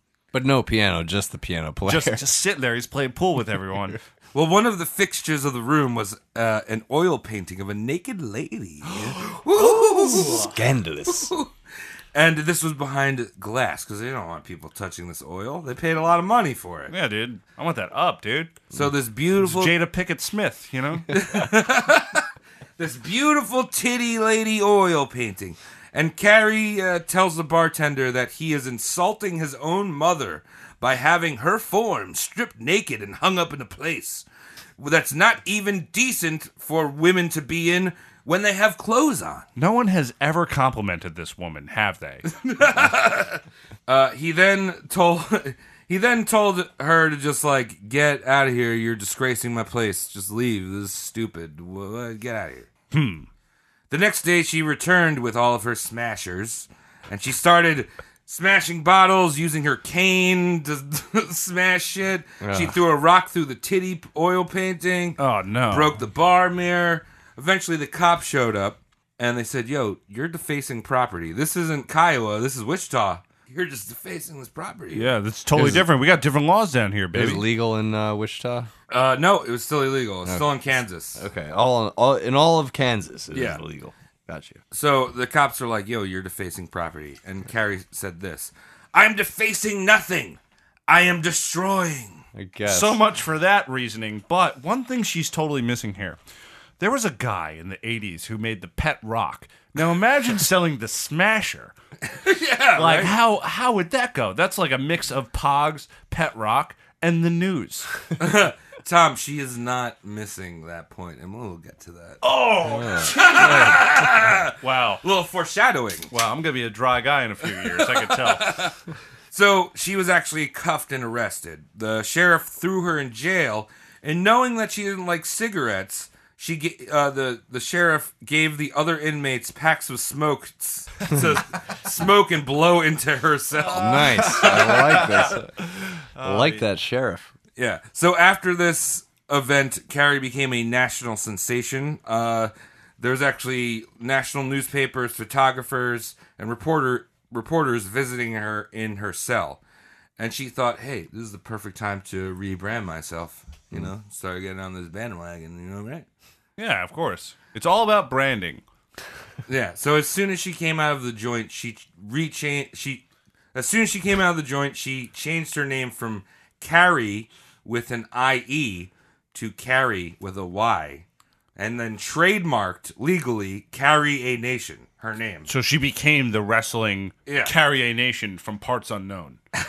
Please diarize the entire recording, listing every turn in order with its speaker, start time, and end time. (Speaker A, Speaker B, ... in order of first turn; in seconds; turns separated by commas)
Speaker A: 0.3-2.2, Speaker B: 1.9-4.0, Speaker C: 4.3-10.6, Speaker A: 9.0-11.3, Speaker C: 11.1-11.5, Speaker C: 12.1-16.9, Speaker B: 16.9-18.6, Speaker C: 18.7-19.7, Speaker B: 19.4-21.2, Speaker C: 21.1-22.2, Speaker C: 22.8-34.2, Speaker C: 34.8-39.5, Speaker B: 39.6-42.2, Speaker C: 42.3-52.7, Speaker B: 52.9-53.3, Speaker C: 53.9-75.1, Speaker A: 62.4-62.8, Speaker B: 65.2-65.9, Speaker B: 74.9-77.5, Speaker A: 75.5-75.9, Speaker A: 77.1-78.7, Speaker C: 78.9-81.2, Speaker A: 80.2-80.6, Speaker A: 81.1-84.6, Speaker C: 83.3-83.6, Speaker C: 84.7-92.2, Speaker A: 92.3-93.0, Speaker B: 92.7-96.2, Speaker B: 96.8-101.7, Speaker C: 102.1-103.1, Speaker B: 102.7-107.9, Speaker C: 108.2-112.2, Speaker B: 112.2-113.8, Speaker A: 112.6-113.9, Speaker C: 113.1-116.1, Speaker B: 114.6-115.0, Speaker B: 116.1-118.6, Speaker C: 117.7-118.7, Speaker C: 119.3-135.1, Speaker A: 133.7-135.5, Speaker B: 133.8-135.4, Speaker B: 136.0-136.6, Speaker A: 136.2-137.3, Speaker C: 137.6-149.6, Speaker C: 150.2-156.1, Speaker B: 156.6-158.6, Speaker C: 159.5-171.0, Speaker C: 171.6-175.5, Speaker B: 175.5-179.4, Speaker C: 177.3-177.5